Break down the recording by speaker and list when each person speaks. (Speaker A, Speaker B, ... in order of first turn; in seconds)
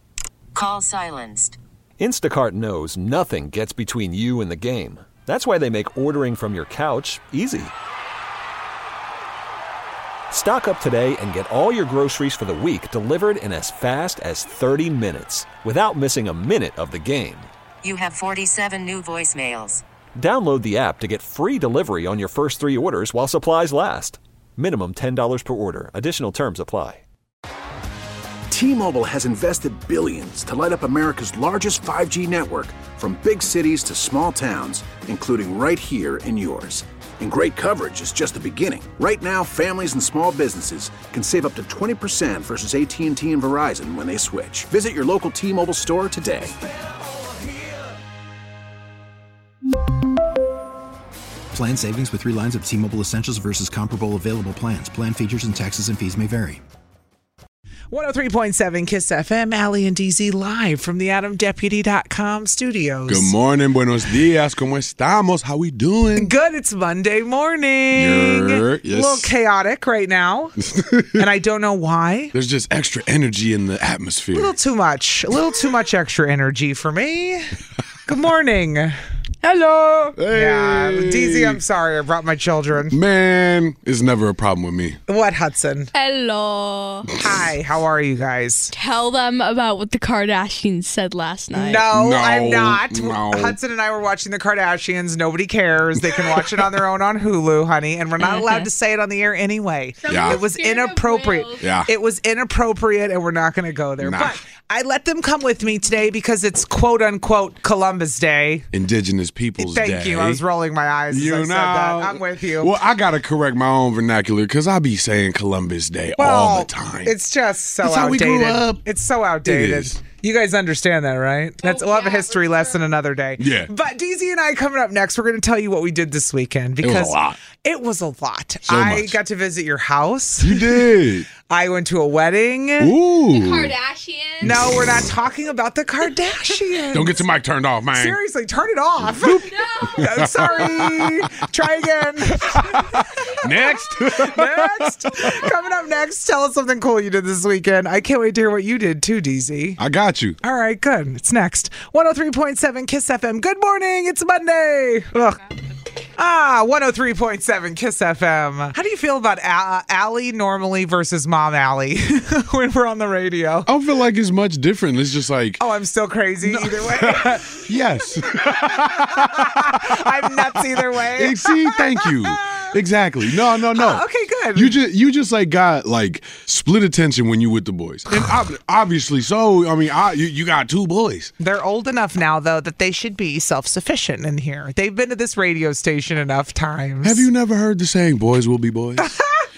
Speaker A: 0.5-1.6, 17.8-19.8
Speaker B: 2.0-7.7, 10.3-17.5, 20.2-27.0
Speaker C: 28.5-46.5
Speaker D: 51.5-56.6
Speaker E: 57.9-63.3, 66.2-70.5, 71.2-72.3, 74.3-77.5, 78.0-79.0, 80.3-82.9, 85.1-85.9, 87.1-88.7, 91.5-108.7, 109.6-112.7, 116.2-130.9, 131.5-132.9, 134.4-137.2, 137.9-149.8, 150.4-155.4, 156.2-163.7, 165.6-167.4, 168.7-172.7, 173.7-174.7, 181.4-187.2, 189.0-189.4
Speaker F: 63.1-66.3, 67.9-69.3, 70.6-71.2, 72.3-74.5, 80.2-81.6, 82.9-85.0, 91.9-93.6, 100.1-100.4, 101.6-101.9, 104.0-104.3, 108.7-110.4, 111.1-117.1, 117.8-118.8, 119.4-120.0, 123.4-123.7, 126.8-127.4, 128.7-129.2, 130.4-131.3, 132.8-133.7, 134.4-134.7, 136.9-138.2, 139.0-141.3, 142.6-145.3, 149.8-150.4, 163.7-165.6, 166.4-169.9, 170.9-174.0, 174.5-181.3, 187.0-189.1
Speaker G: 79.4-80.2, 85.9-87.1, 88.7-91.9, 98.2-98.7, 100.0-101.6, 121.6-122.8, 133.3-134.5, 139.5-140.1